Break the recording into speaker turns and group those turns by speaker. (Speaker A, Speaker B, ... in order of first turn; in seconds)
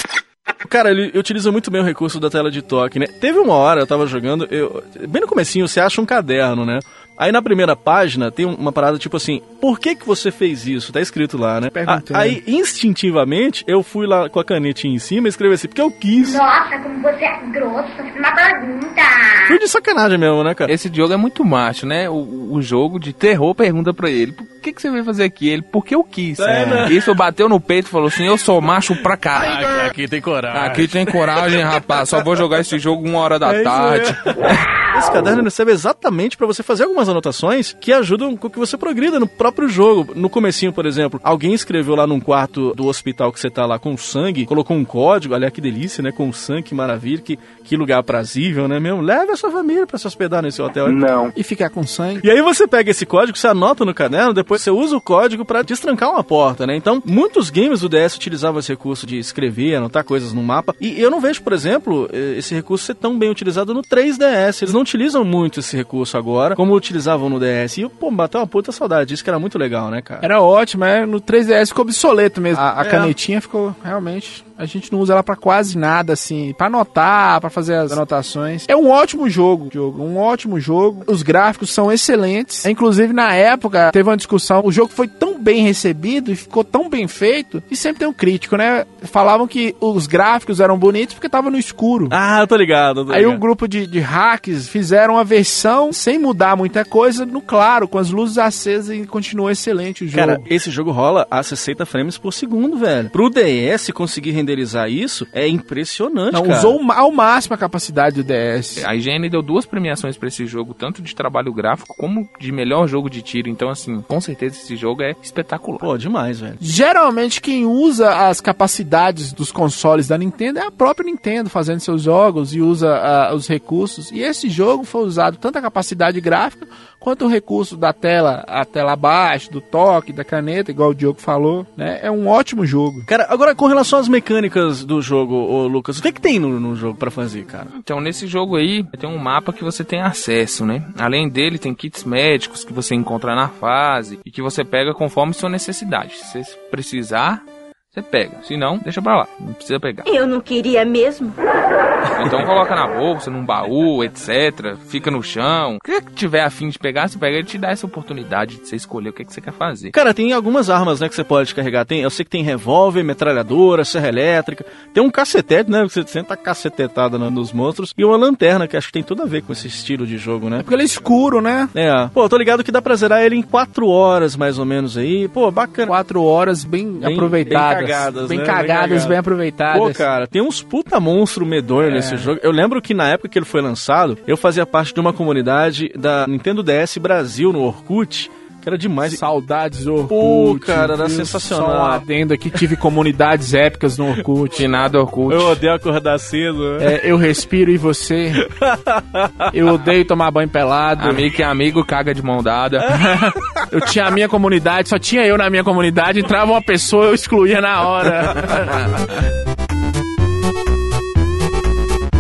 Speaker A: 0.7-16.4, 19.5-20.7, 26.4-26.9, 29.4-31.1, 33.5-51.2, 52.2-70.2, 72.8-73.1, 92.1-93.4, 100.1-106.8, 115.8-116.6, 133.1-137.7, 159.9-170.7, 171.7-175.9, 177.0-179.2, 179.7-189.2, 190.1-192.0, 195.3-196.9, 198.6-199.3
Speaker B: 11.7-12.4, 51.4-52.3, 70.2-92.2, 93.1-100.5, 106.3-108.8, 116.6-133.1, 170.6-171.7, 175.9-180.0, 181.8-182.3, 189.0-194.6, 196.8-198.4, 199.5-201.3, 202.9-209.1
Speaker C: 16.2-19.6
Speaker D: 20.7-29.9, 30.5-34.3, 108.8-115.9, 137.8-150.1, 152.2-159.9, 194.5-195.6, 201.0-202.9